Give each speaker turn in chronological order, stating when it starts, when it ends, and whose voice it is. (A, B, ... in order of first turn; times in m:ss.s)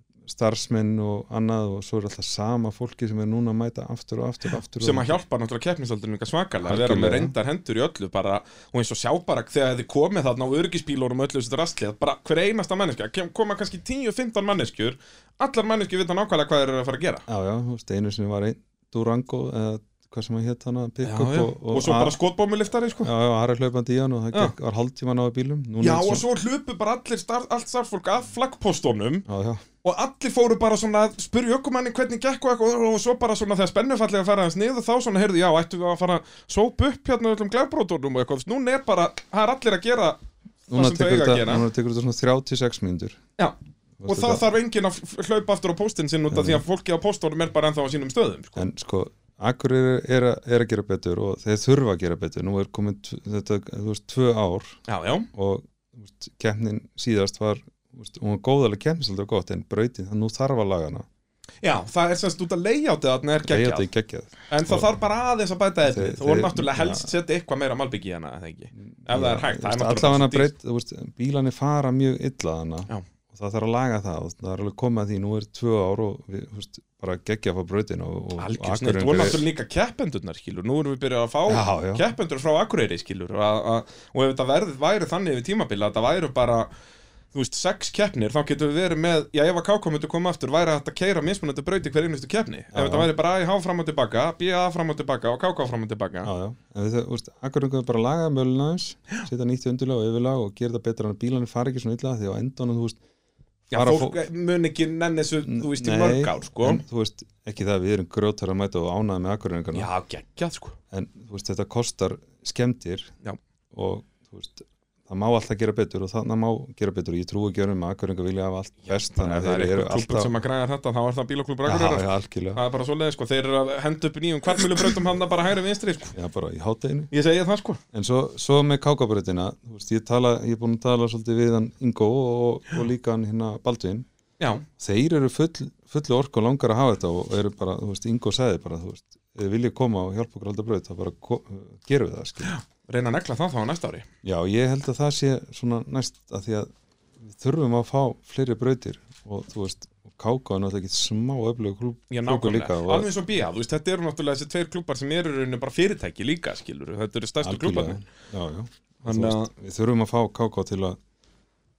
0:00.2-0:05.2 A
0:04.8-0:17.2 B
0:06.6-0:07.3 A
0:17.3-0:22.2 A
0:21.0-0:23.1 B
0:23.0-0:26.2 A
0:25.8-0:29.2 B
0:29.3-0:29.6 A
0:29.8-0:41.6 B
0:40.7-0:43.2 A
0:43.4-0:48.6 B
0:44.0-0:44.4 A
0:46.3-0:46.6 A
0:48.6-0:54.8 A
0:54.9-0:55.3 B
0:55.3-1:01.0 A
1:01.6-1:03.9 B
1:03.4-1:04.9 A
1:04.5-1:10.5 B
1:05.8-1:07.1 A
1:08.9-1:19.4 A
1:18.4-1:26.7 B
1:21.5-1:22.1 A
1:27.3-1:36.3 B
1:32.7-1:33.1 A
1:36.2-1:43.0 A
1:43.7-1:44.2 A
1:43.7-1:46.8 B
1:45.4-1:49.9 A
1:49.7-1:50.8 B
1:50.9-1:53.1 A
1:53.7-2:00.3 A
1:58.9-2:06.1 B
2:01.6-2:02.6 A
2:06.1-2:07.1 A
2:07.1-2:07.8 B
2:07.9-2:14.1 A
2:14.4-2:14.6 B
2:14.8-2:22.5 A
2:22.4-2:24.1 B
2:24.2-2:33.1 A
2:32.1-2:38.0 B
2:37.4-2:41.0 A
2:39.0-2:39.5 B